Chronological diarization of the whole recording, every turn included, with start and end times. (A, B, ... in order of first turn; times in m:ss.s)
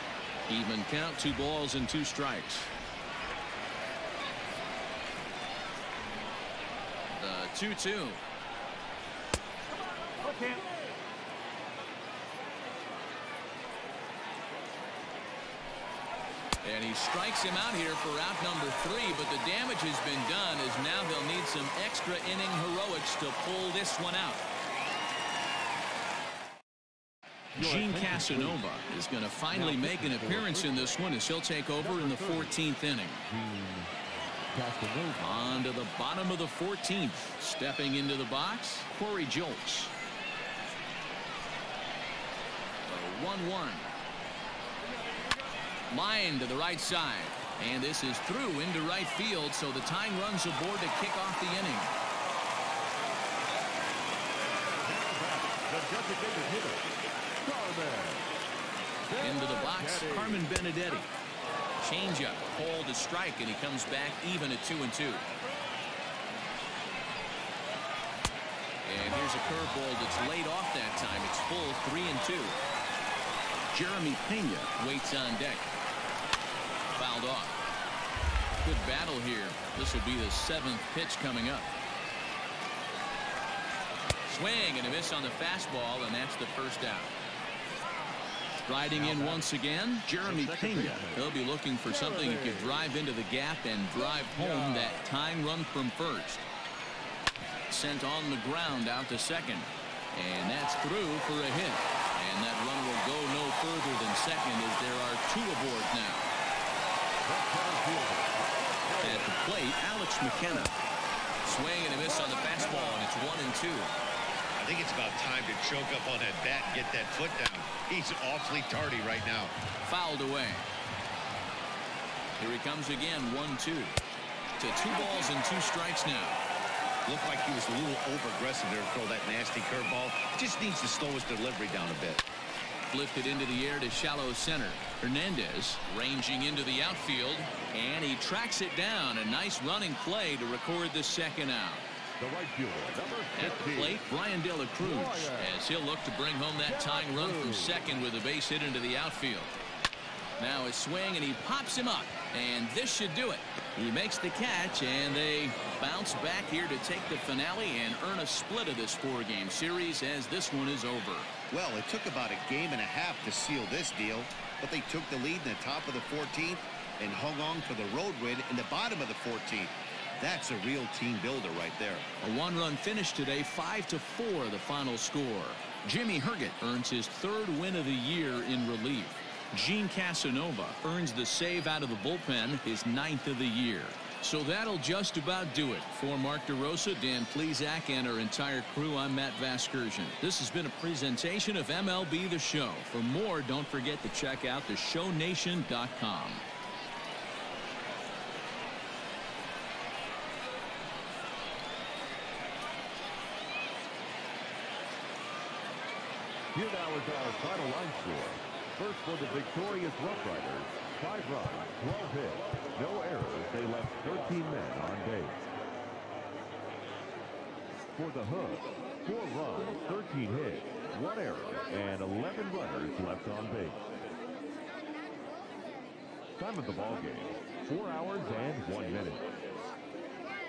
0:00.5-0:02.7 A
0:07.2-0:08.2 A
0:16.6-0:24.5 A
0:27.6-0:33.2 A
0:27.6-0:28.6 B
0:29.5-0:31.0 B
0:31.8-0:32.6 B
0:33.3-0:33.9 B
0:34.5-0:35.5 B
0:35.2-0:39.9 A
0:42.9-0:43.9 A
0:45.9-0:51.9 A
0:54.8-0:58.3 B
0:59.1-1:00.6 B
0:59.2-1:01.1 A
1:01.8-1:05.3 A
1:08.8-1:12.6 A
1:13.7-1:15.7 A
1:17.0-1:17.6 A
1:18.6-1:21.7 A
1:24.2-1:27.2 A
1:28.6-1:36.5 A
1:28.9-1:29.6 B
1:30.2-1:32.9 B
1:33.9-1:35.0 B
1:37.7-1:46.3 A
1:47.2-1:49.3 B
1:49.0-1:50.8 A
1:51.4-1:53.9 A
1:52.0-1:53.1 B
1:54.6-1:59.5 C
1:59.8-2:00.7 A
2:02.4-2:04.0 A
2:04.6-2:06.4 A
2:07.1-2:12.2 C
2:12.9-2:21.8 A
2:22.2-2:24.0 B
2:23.4-2:29.6 A
2:24.8-2:25.5 B
2:26.6-2:27.9 B
2:30.4-2:41.3 A
2:41.5-2:52.1 C
2:52.2-3:16.4 A
3:26.5-3:35.4 B
3:38.0-3:43.8 B
3:46.4-3:49.4 B